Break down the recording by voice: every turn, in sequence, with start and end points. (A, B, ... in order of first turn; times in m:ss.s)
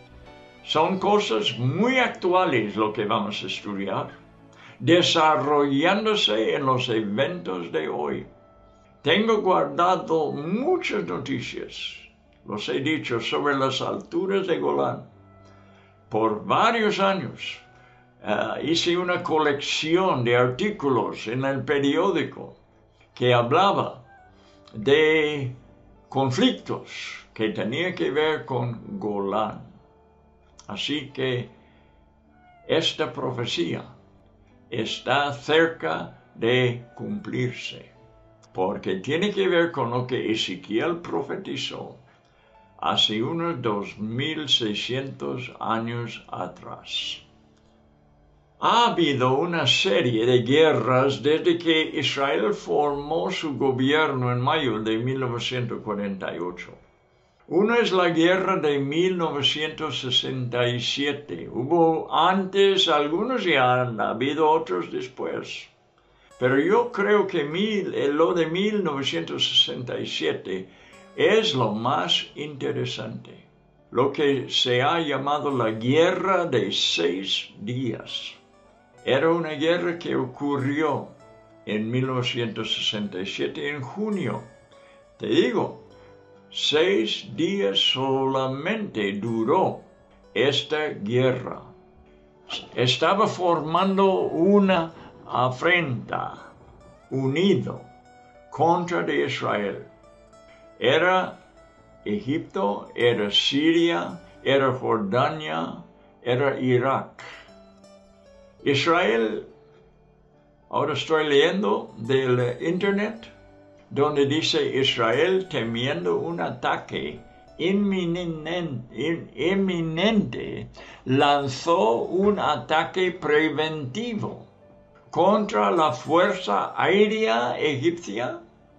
0:00.6-0:04.1 A
0:04.8-0:08.3 A
0:09.0-0:15.0 A
0:16.1-0:17.6 A
0:18.2-0:22.6 A
0:23.1-0:24.0 A
0:24.8-0:25.6 A
0:26.1-0:29.7 A
0:30.7-0:31.5 A
0:32.7-0:33.9 A
0:34.7-0:37.9 A
0:38.5-0:42.0 A
0:42.8-0:47.2 A
0:48.6-0:56.8 A
0:57.5-1:05.7 A
1:06.4-1:18.4 A
1:19.0-1:21.1 A
1:21.6-1:24.4 A
1:25.2-1:25.8 A
1:26.5-1:31.7 A
1:32.5-1:36.4 A
1:37.1-1:37.8 A
1:38.5-1:39.9 A
1:40.8-1:41.4 A
1:42.0-1:47.3 A
1:48.6-1:49.4 A
1:50.7-1:53.3 A
1:53.9-2:04.5 A
2:05.1-2:08.4 A